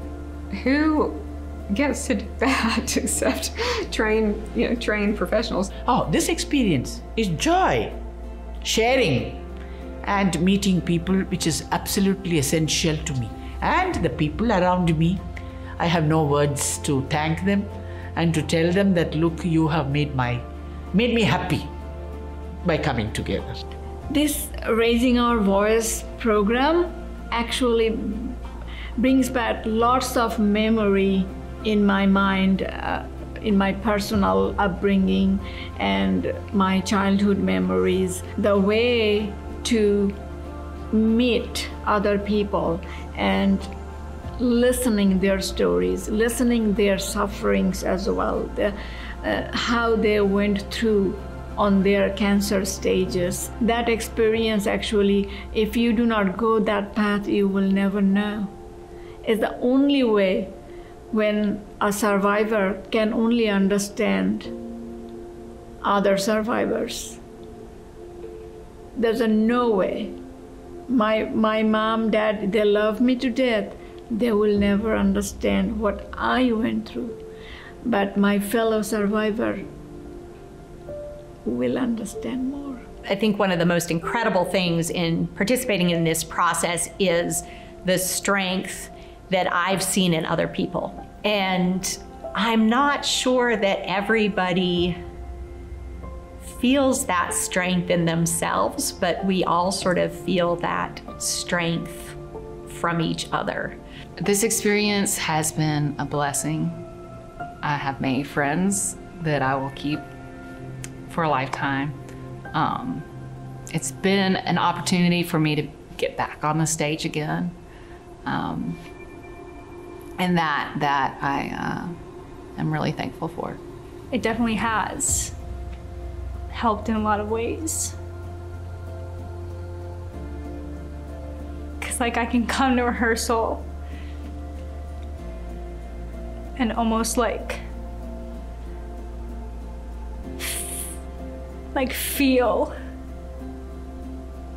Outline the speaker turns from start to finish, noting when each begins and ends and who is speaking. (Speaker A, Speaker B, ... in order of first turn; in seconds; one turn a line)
Speaker A: 0.5-5.7
Speaker B: 5.9-8.0
Speaker B: 8.6-9.4
Speaker B: 10.0-15.2
Speaker B: 15.8-21.7
Speaker B: 22.6-23.6
Speaker C: 24.1-28.4
Speaker C: 29.0-40.2
Speaker C: 40.9-43.7
Speaker C: 44.4-58.5
Speaker C: 59.2-60.5
Speaker C: 61.1-64.5
Speaker C: 65.8-67.2
Speaker C: 68.9-70.2
Speaker C: 70.9-77.2
Speaker C: 77.8-79.7
Speaker C: 81.4-82.8
Speaker D: 83.0-95.0
Speaker D: 96.4-103.8
Speaker E: 104.2-106.8
Speaker E: 107.6-110.0
Speaker E: 111.1-112.0
Speaker E: 112.5-113.1
Speaker E: 113.7-117.5
Speaker E: 118.2-118.8
Speaker E: 120.2-122.0
Speaker E: 122.6-123.6
Speaker F: 124.1-125.3
Speaker F: 126.5-128.0
Speaker F: 131.8-133.7
Speaker F: 136.6-137.6
Speaker F: 140.4-140.9
Speaker F: 141.7-142.7